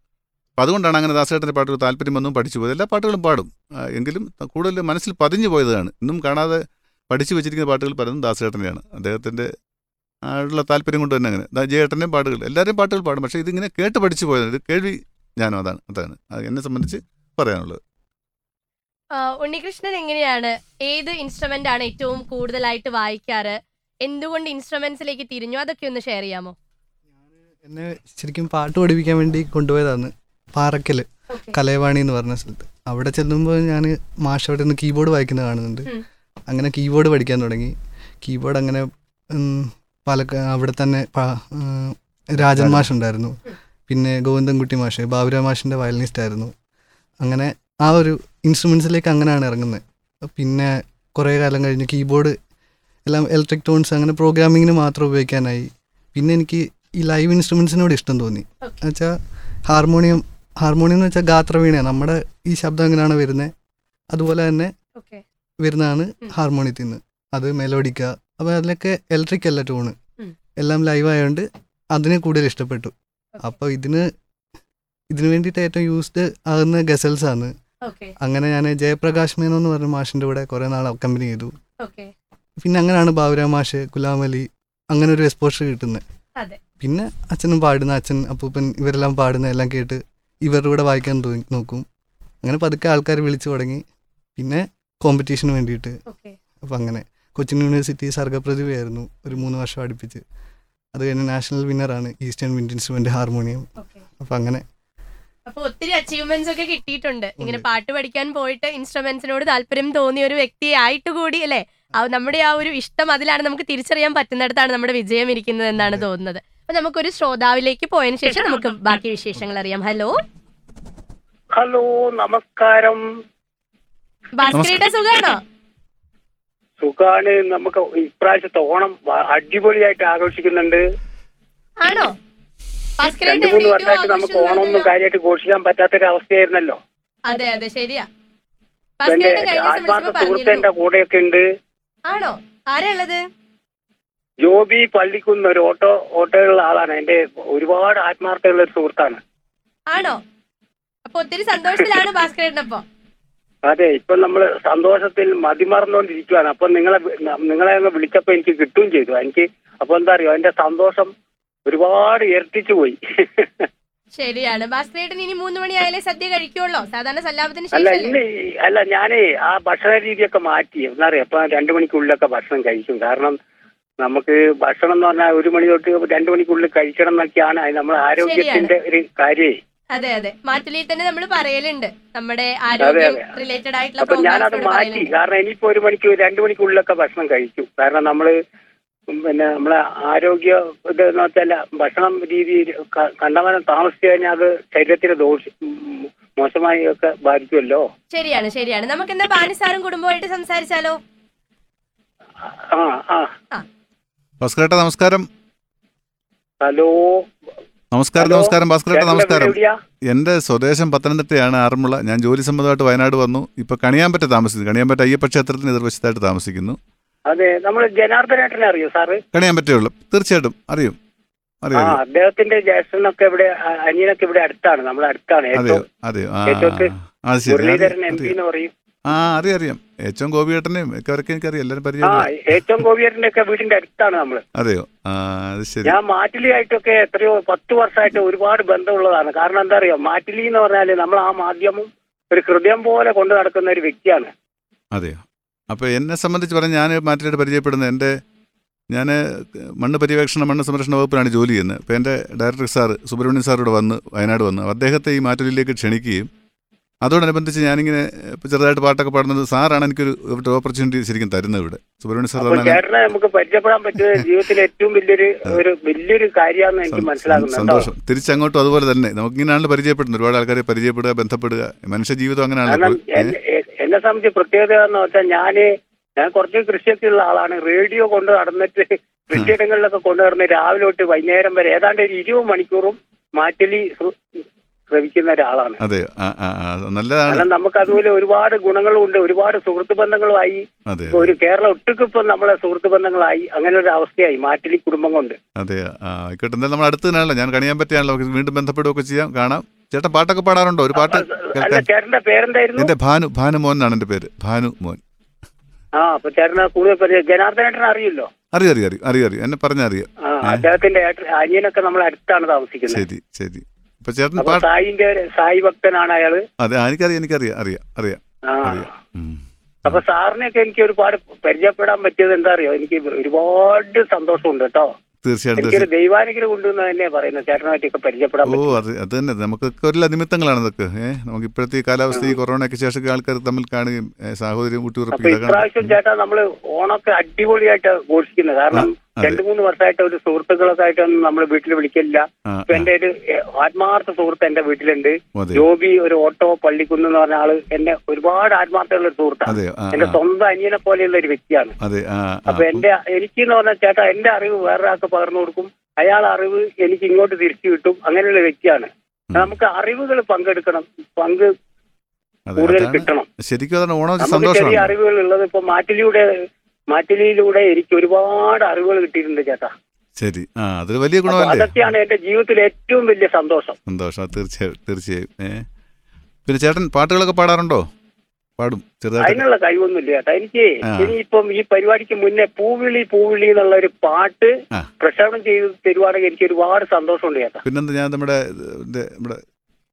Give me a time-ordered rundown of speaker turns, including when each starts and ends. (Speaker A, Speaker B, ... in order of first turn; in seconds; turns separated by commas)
Speaker A: 0.6-9.5, Speaker A: 10.3-17.8, Speaker B: 19.2-26.5, Speaker C: 27.6-35.9, Speaker C: 36.5-43.4, Speaker A: 42.5-42.9, Speaker C: 43.9-46.5, Speaker C: 47.2-49.8, Speaker C: 50.3-52.3, Speaker C: 53.1-59.1, Speaker C: 59.7-63.5, Speaker C: 64.1-64.7, Speaker B: 65.0-65.2, Speaker C: 65.6-69.9, Speaker C: 70.6-72.9, Speaker C: 73.4-74.1, Speaker C: 75.1-77.5, Speaker B: 77.8-78.1, Speaker C: 78.2-81.5, Speaker B: 81.8-82.1, Speaker C: 82.6-86.0, Speaker C: 86.8-91.8, Speaker C: 92.4-93.8, Speaker C: 94.4-95.9, Speaker B: 96.1-96.3, Speaker C: 96.7-100.2, Speaker C: 100.9-103.7, Speaker B: 103.8-104.0, Speaker C: 104.2-104.6, Speaker B: 105.5-120.1, Speaker D: 121.5-123.0, Speaker B: 124.4-125.4, Speaker A: 124.5-124.8, Speaker D: 126.8-130.8, Speaker B: 131.8-132.1, Speaker B: 133.0-134.9, Speaker D: 133.0-136.8, Speaker B: 137.3-138.0, Speaker B: 139.0-140.7, Speaker D: 139.1-141.4, Speaker B: 142.1-143.2, Speaker D: 144.4-149.2, Speaker B: 149.9-150.2, Speaker B: 151.1-152.8, Speaker D: 153.7-161.1, Speaker D: 161.7-163.7, Speaker B: 164.2-168.2, Speaker D: 167.7-173.4, Speaker D: 174.0-179.6, Speaker B: 178.2-178.7, Speaker B: 179.9-185.1, Speaker D: 182.8-183.2, Speaker D: 184.0-188.3, Speaker D: 189.1-197.9, Speaker B: 198.1-200.9, Speaker D: 202.7-203.3, Speaker A: 204.4-205.3, Speaker D: 206.6-207.2, Speaker A: 207.9-209.6, Speaker D: 208.2-209.7, Speaker A: 210.1-216.8, Speaker D: 217.3-219.2, Speaker A: 219.3-221.0, Speaker A: 221.6-222.0, Speaker D: 221.7-225.8, Speaker A: 225.5-228.3, Speaker D: 226.5-226.9, Speaker D: 227.5-228.7, Speaker A: 229.1-232.8, Speaker D: 232.0-234.4, Speaker A: 234.6-236.0, Speaker D: 235.8-244.3, Speaker A: 244.9-248.1, Speaker A: 248.9-249.2, Speaker A: 249.8-256.3, Speaker A: 257.0-262.8, Speaker D: 262.4-267.9, Speaker A: 266.9-273.4, Speaker D: 272.6-284.1, Speaker D: 284.9-285.8, Speaker A: 285.8-287.5, Speaker D: 287.3-295.4, Speaker A: 290.9-291.3, Speaker A: 295.6-301.9, Speaker D: 300.9-302.9, Speaker A: 302.8-305.0, Speaker D: 306.0-308.3, Speaker A: 308.5-310.7, Speaker D: 310.2-313.0, Speaker A: 312.9-314.7, Speaker D: 314.4-316.4, Speaker A: 316.6-320.0, Speaker D: 318.5-319.0, Speaker D: 319.8-324.9, Speaker A: 325.2-325.9, Speaker D: 325.6-328.8, Speaker A: 328.4-336.0, Speaker D: 335.1-351.7, Speaker A: 338.7-339.4, Speaker A: 342.5-342.9, Speaker A: 345.4-345.6, Speaker A: 349.4-350.2, Speaker A: 351.8-352.9, Speaker D: 352.5-361.5, Speaker A: 359.3-359.6, Speaker A: 362.5-364.9, Speaker D: 362.6-363.3, Speaker D: 364.2-366.2, Speaker D: 366.9-369.7, Speaker A: 370.2-371.9, Speaker D: 371.3-373.8, Speaker A: 373.9-375.7, Speaker A: 376.4-377.8, Speaker A: 378.6-379.4, Speaker D: 379.2-387.6, Speaker A: 380.9-381.1, Speaker A: 387.6-389.4